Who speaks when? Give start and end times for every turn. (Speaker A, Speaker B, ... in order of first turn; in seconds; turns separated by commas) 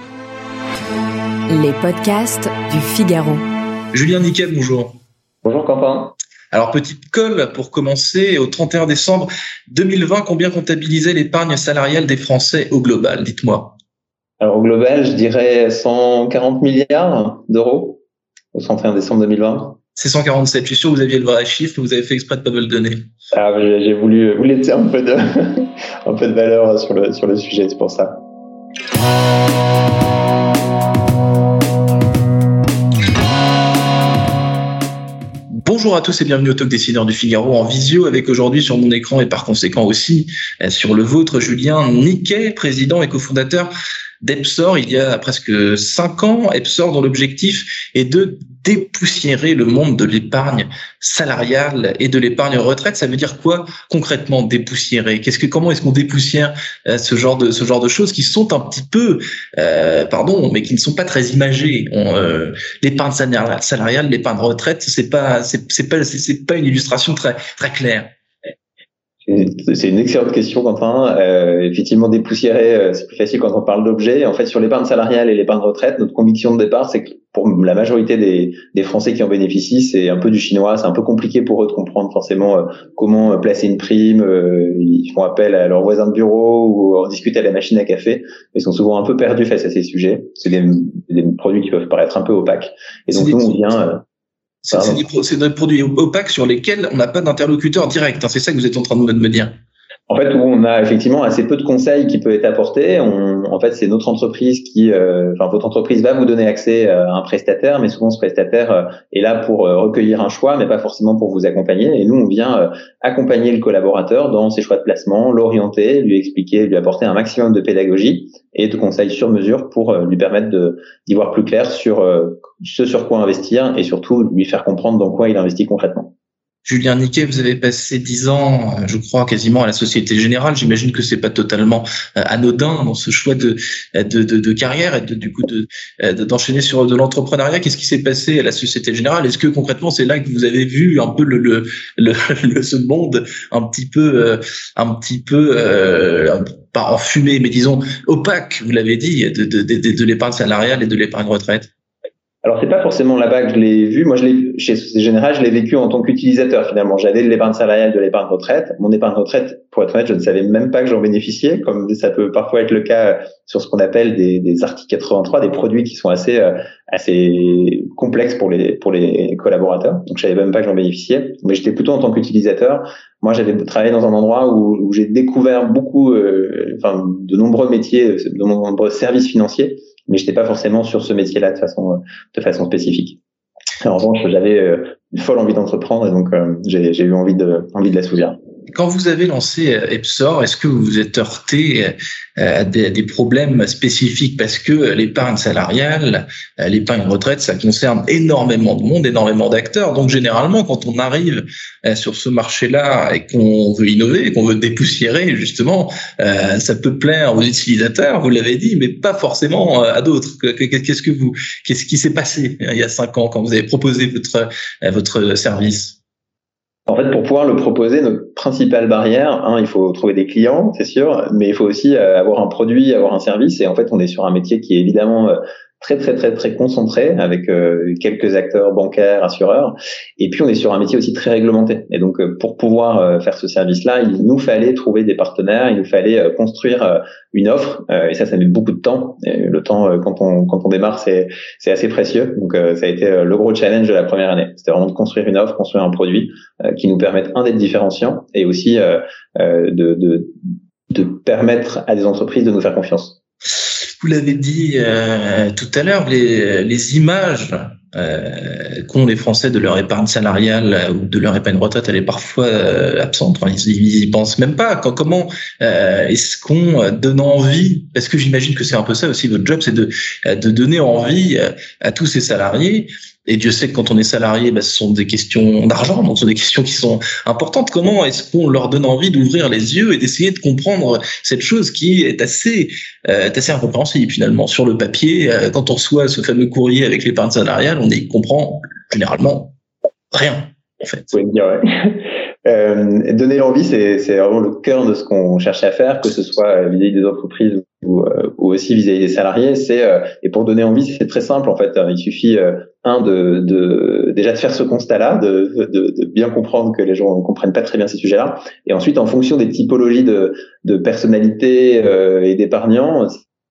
Speaker A: 1.5-3.4, Speaker B: 3.9-5.0, Speaker C: 5.4-6.1, Speaker B: 6.5-13.8, Speaker C: 14.4-18.0, Speaker C: 18.5-19.8, Speaker B: 20.0-23.1, Speaker C: 23.3-28.2, Speaker B: 35.5-43.7, Speaker B: 44.2-68.1, Speaker C: 69.2-94.0, Speaker B: 93.1-93.6, Speaker B: 94.6-99.6, Speaker C: 94.7-95.0, Speaker C: 100.1-126.1, Speaker B: 126.7-151.7, Speaker C: 152.4-183.2, Speaker C: 183.8-188.4, Speaker B: 188.7-216.0, Speaker C: 216.9-250.3, Speaker C: 250.9-253.2, Speaker B: 253.8-289.5, Speaker B: 290.1-291.1, Speaker C: 291.1-313.2